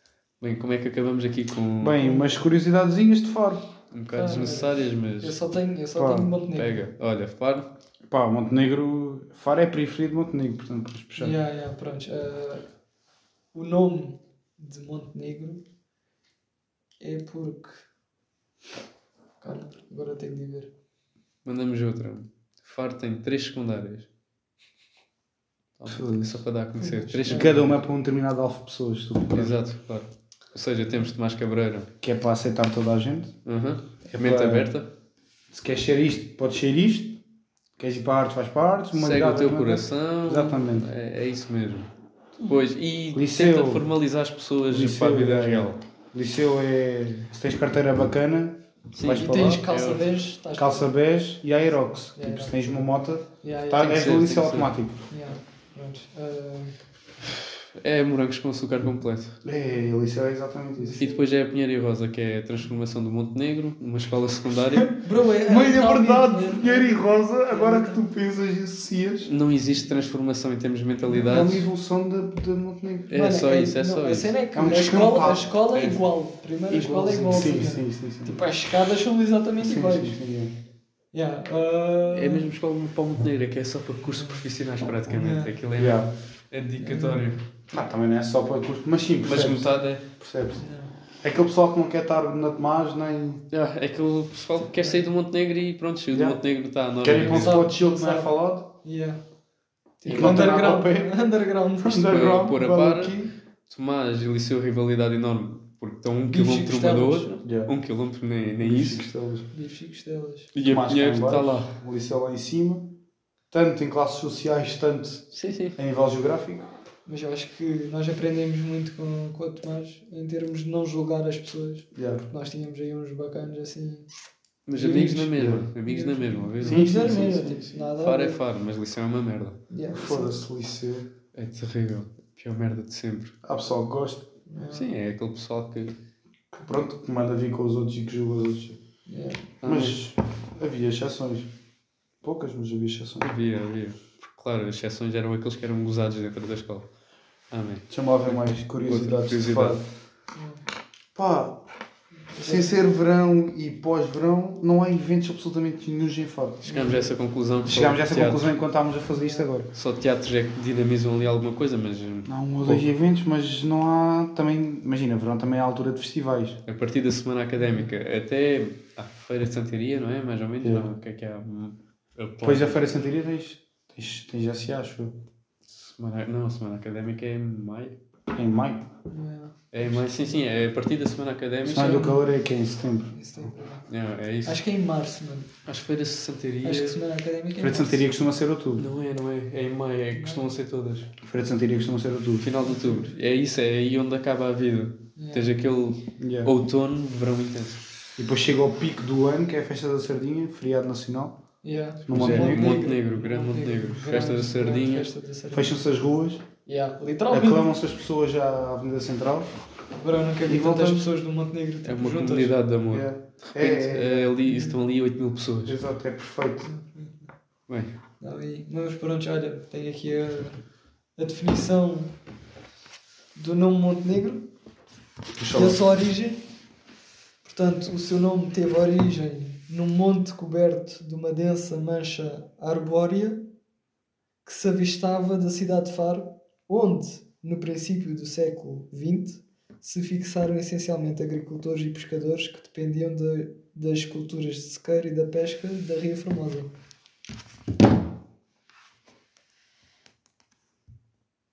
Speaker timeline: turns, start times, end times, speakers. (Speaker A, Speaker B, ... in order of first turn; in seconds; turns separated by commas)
Speaker A: 0.4-2.2, Speaker B: 1.8-3.7, Speaker A: 3.9-5.3, Speaker C: 4.1-6.8, Speaker B: 6.0-6.3, Speaker A: 6.5-7.7, Speaker B: 8.1-11.3, Speaker C: 11.2-12.7, Speaker C: 13.5-15.6, Speaker C: 17.0-17.9, Speaker C: 19.4-20.7, Speaker A: 21.4-24.1, Speaker A: 25.8-27.8, Speaker B: 25.9-26.4, Speaker C: 26.8-27.6, Speaker B: 27.3-29.6, Speaker A: 29.3-31.9, Speaker B: 32.0-33.3, Speaker A: 33.5-34.9, Speaker B: 34.1-34.7, Speaker B: 35.5-37.2, Speaker B: 37.8-40.9, Speaker A: 38.9-45.8, Speaker B: 43.1-43.9, Speaker B: 44.7-49.6, Speaker A: 48.9-50.0, Speaker C: 49.1-50.9, Speaker B: 50.5-55.0, Speaker C: 52.1-54.0, Speaker A: 53.7-54.7, Speaker C: 55.1-56.7, Speaker A: 57.7-59.4, Speaker B: 59.4-61.0, Speaker C: 60.8-61.2, Speaker A: 61.0-65.0, Speaker C: 65.0-68.0, Speaker B: 65.4-69.3, Speaker A: 69.2-71.6, Speaker C: 71.1-71.6, Speaker B: 71.2-73.1, Speaker A: 73.1-74.3, Speaker C: 73.1-80.2, Speaker B: 74.5-75.5, Speaker A: 75.7-76.0, Speaker B: 76.7-78.4, Speaker A: 76.9-77.6, Speaker B: 79.6-80.5, Speaker C: 81.1-82.5, Speaker A: 82.1-87.4, Speaker C: 84.1-84.4, Speaker C: 85.1-85.5, Speaker B: 85.8-86.1, Speaker C: 86.8-87.2, Speaker B: 87.7-90.6, Speaker A: 89.2-90.0, Speaker C: 90.6-90.9, Speaker B: 91.2-93.4, Speaker A: 93.5-97.6, Speaker B: 96.1-96.4, Speaker B: 97.0-98.7, Speaker C: 97.2-99.2, Speaker C: 100.0-102.2, Speaker A: 100.0-100.6, Speaker B: 100.0-101.1, Speaker B: 101.8-103.3, Speaker A: 101.9-109.0, Speaker C: 106.3-107.3, Speaker B: 107.4-107.7, Speaker B: 108.6-109.5, Speaker C: 109.5-110.5, Speaker A: 110.5-111.7, Speaker B: 110.6-113.0, Speaker B: 113.5-115.2, Speaker A: 115.3-115.8, Speaker B: 115.8-116.7, Speaker C: 117.0-124.1, Speaker B: 121.9-122.2, Speaker A: 124.7-127.2, Speaker C: 124.7-128.4, Speaker B: 125.3-125.7, Speaker B: 126.6-127.7, Speaker A: 127.8-129.6, Speaker C: 129.7-130.4, Speaker B: 129.9-131.1, Speaker A: 131.3-133.3, Speaker B: 133.4-134.3, Speaker C: 134.5-134.9, Speaker A: 134.7-135.9, Speaker B: 136.5-138.8, Speaker C: 139.1-139.5, Speaker A: 139.6-140.0, Speaker B: 139.6-141.5, Speaker B: 142.2-143.3, Speaker A: 143.2-146.8, Speaker A: 147.5-149.8, Speaker B: 147.9-149.8, Speaker C: 150.3-150.6, Speaker B: 151.1-151.6, Speaker C: 152.3-152.8, Speaker B: 152.4-156.7, Speaker A: 156.6-158.5, Speaker C: 156.7-157.1, Speaker B: 157.7-159.7, Speaker C: 159.1-159.4, Speaker A: 159.7-162.8, Speaker B: 162.3-166.6, Speaker A: 166.7-172.8, Speaker C: 167.6-167.9, Speaker B: 170.6-170.9, Speaker B: 172.4-175.2, Speaker A: 175.7-177.9, Speaker B: 178.3-178.9, Speaker C: 179.1-180.0, Speaker A: 179.7-182.1, Speaker B: 181.6-183.1, Speaker C: 181.7-182.2, Speaker C: 183.1-183.8, Speaker A: 183.9-184.6, Speaker C: 184.4-185.5, Speaker A: 185.7-187.0, Speaker C: 186.6-188.1, Speaker B: 187.6-188.9, Speaker A: 188.8-191.1, Speaker C: 190.1-190.5, Speaker B: 191.2-192.5, Speaker A: 192.4-197.8, Speaker C: 192.6-193.1, Speaker C: 195.2-195.7, Speaker B: 196.2-196.5, Speaker B: 198.2-201.4, Speaker C: 201.6-205.8, Speaker B: 202.1-202.7, Speaker A: 202.1-205.1, Speaker B: 205.5-206.4, Speaker C: 206.7-207.7, Speaker B: 207.3-209.5, Speaker C: 210.0-212.5, Speaker B: 210.4-211.1, Speaker A: 211.8-215.8, Speaker B: 212.9-214.4, Speaker C: 214.4-214.8, Speaker B: 215.7-216.7, Speaker C: 216.6-217.3, Speaker C: 218.2-220.6, Speaker C: 221.2-222.1, Speaker C: 223.3-224.4, Speaker B: 225.4-225.8, Speaker C: 225.5-226.4, Speaker C: 227.4-233.4, Speaker C: 234.4-246.7